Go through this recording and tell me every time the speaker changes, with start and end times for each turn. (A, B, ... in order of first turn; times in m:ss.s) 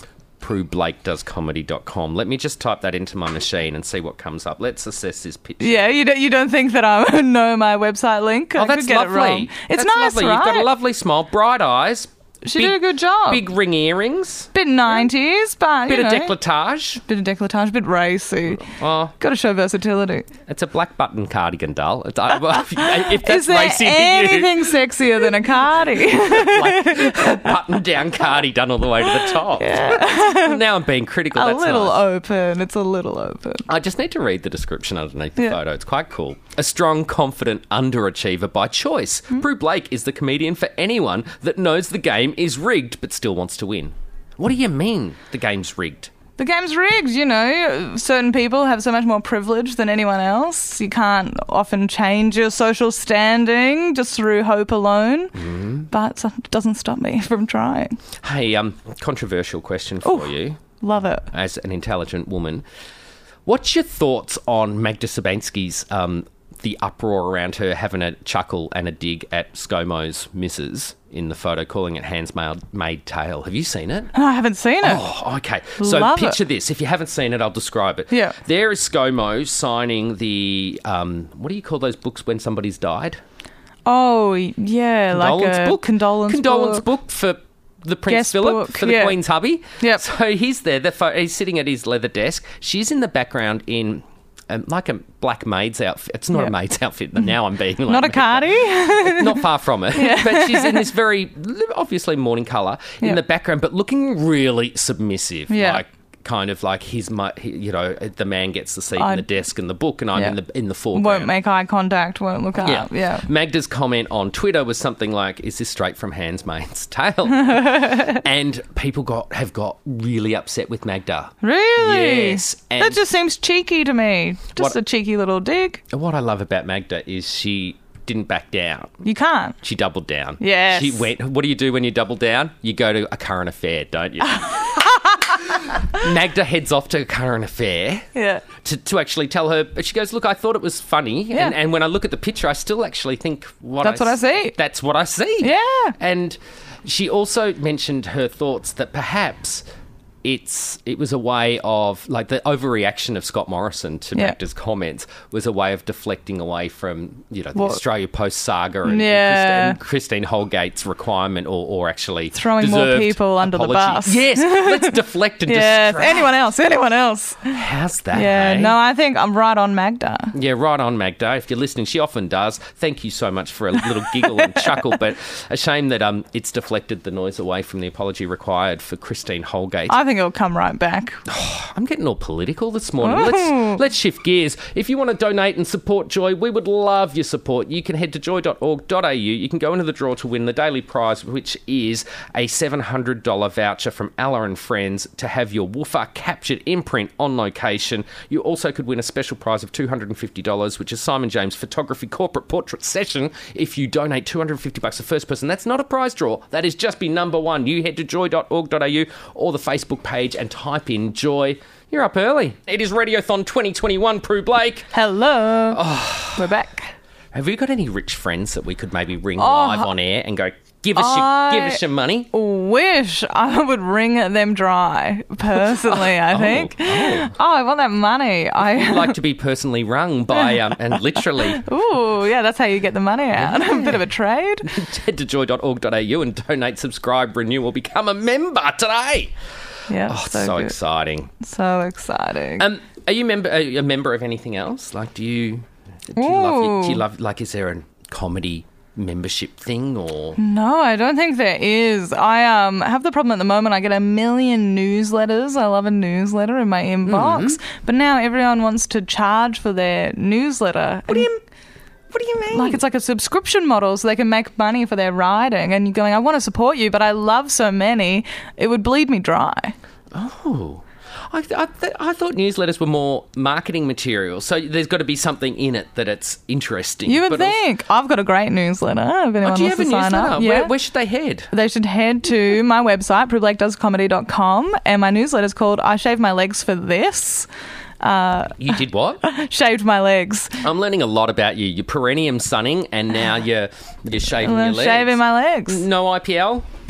0:00.4-0:05.8 A
0:05.6-0:10.7 B
0:08.6-0:14.5 A
0:12.4-0:13.4 B
0:14.5-0:16.3 B
0:15.9-0:17.0 A
0:17.0-0:20.3 B
0:18.5-0:19.1 A
0:20.4-0:24.7 A
0:23.0-0:27.5 B
0:26.0-0:32.0 A
0:29.2-0:30.6 B
0:31.3-0:33.6 B
0:33.7-0:46.1 A
0:46.4-0:55.4 B
0:55.4-0:55.9 A
0:55.9-0:58.0 B
0:58.2-1:00.6 A
1:00.8-1:01.3 B
1:01.3-1:02.6 A
1:03.4-1:14.1 A
1:14.1-1:15.0 B
1:14.8-1:23.2 A
1:15.8-1:16.4 B
1:18.1-1:18.4 B
1:23.8-1:26.8 B
1:25.1-1:51.3 A
1:28.1-1:29.2 B
1:37.9-1:40.9 B
1:45.5-1:45.8 B
1:49.0-1:49.2 B
1:50.9-1:53.2 B
1:52.6-2:03.0 A
1:57.4-1:58.2 B
2:01.4-2:05.8 B
2:05.9-2:09.0 A
2:09.0-2:09.6 B
2:09.6-2:29.6 A
2:10.4-2:11.1 B
2:18.1-2:18.4 B
2:23.8-2:24.5 B
2:25.4-2:26.0 B
2:30.2-2:46.3 A
2:38.8-2:39.8 B
2:42.3-2:47.6 B
2:47.5-2:48.8 A
2:48.1-2:50.3 B
2:50.3-3:00.0 A
2:59.9-3:01.2 B
3:01.2-3:34.9 A
3:03.0-3:03.8 B
3:34.9-3:36.9 B
3:35.7-3:36.5 A
3:37.3-3:42.3 A
3:39.4-3:39.9 B
3:41.0-3:49.2 B
3:45.6-3:47.3 A
3:48.7-3:51.6 A
3:51.4-3:54.7 B
3:53.4-3:54.0 A
3:54.6-3:59.3 A
3:59.9-4:00.7 B
4:00.0-4:01.3 A
4:01.4-4:02.6 B
4:02.6-4:10.4 A
4:06.2-4:07.0 B
4:10.4-4:21.3 B
4:17.0-4:17.6 A
4:21.1-4:21.4 A
4:22.1-4:22.8 A
4:22.5-4:29.8 B
4:30.1-4:37.6 A
4:37.0-4:40.7 B
4:39.4-4:41.5 A
4:41.5-4:47.5 B
4:48.0-4:48.7 B
4:48.6-4:49.2 A
4:49.2-4:50.6 B
4:50.6-4:56.6 A
4:54.4-4:55.8 B